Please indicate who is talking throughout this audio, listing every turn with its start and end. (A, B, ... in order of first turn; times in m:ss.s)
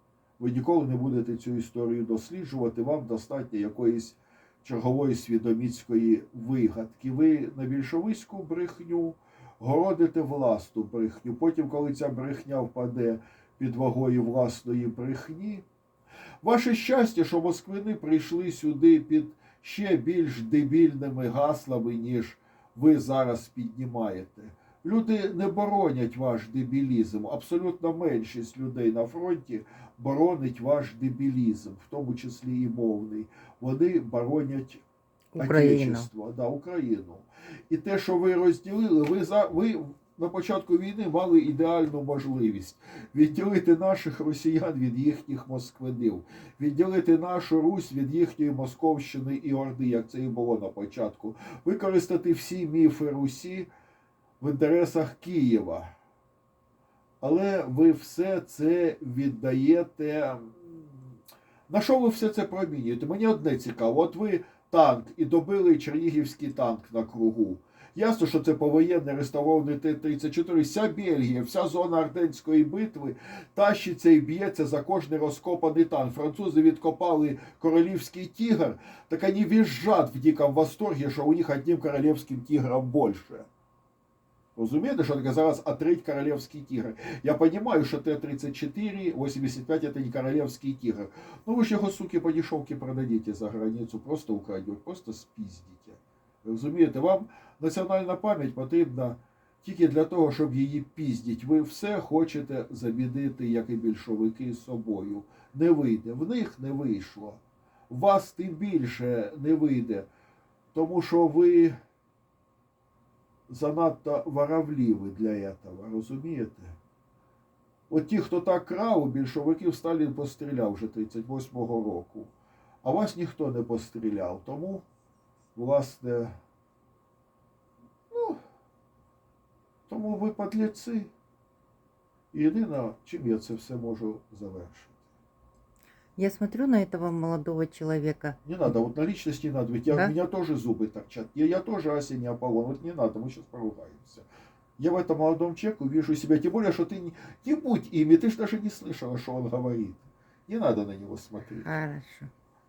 0:00.4-0:15.6 A
0:16.4-0:34.8 A
0:35.3-0:36.1 B
0:35.4-0:53.7 A
0:54.4-0:55.9 A
0:57.2-1:01.1 A
1:01.7-1:23.5 A
1:24.6-1:50.1 A
1:50.7-1:51.7 A
1:53.5-1:56.8 A
1:57.9-2:02.3 A
2:02.8-2:04.8 A
2:05.6-2:06.4 A
2:08.1-2:08.4 A
2:09.9-2:11.1 A
2:12.3-2:15.0 A
2:16.2-2:18.4 B
2:18.4-2:24.2 A
2:19.9-2:20.1 B
2:24.8-2:31.7 A
2:31.6-2:32.3 B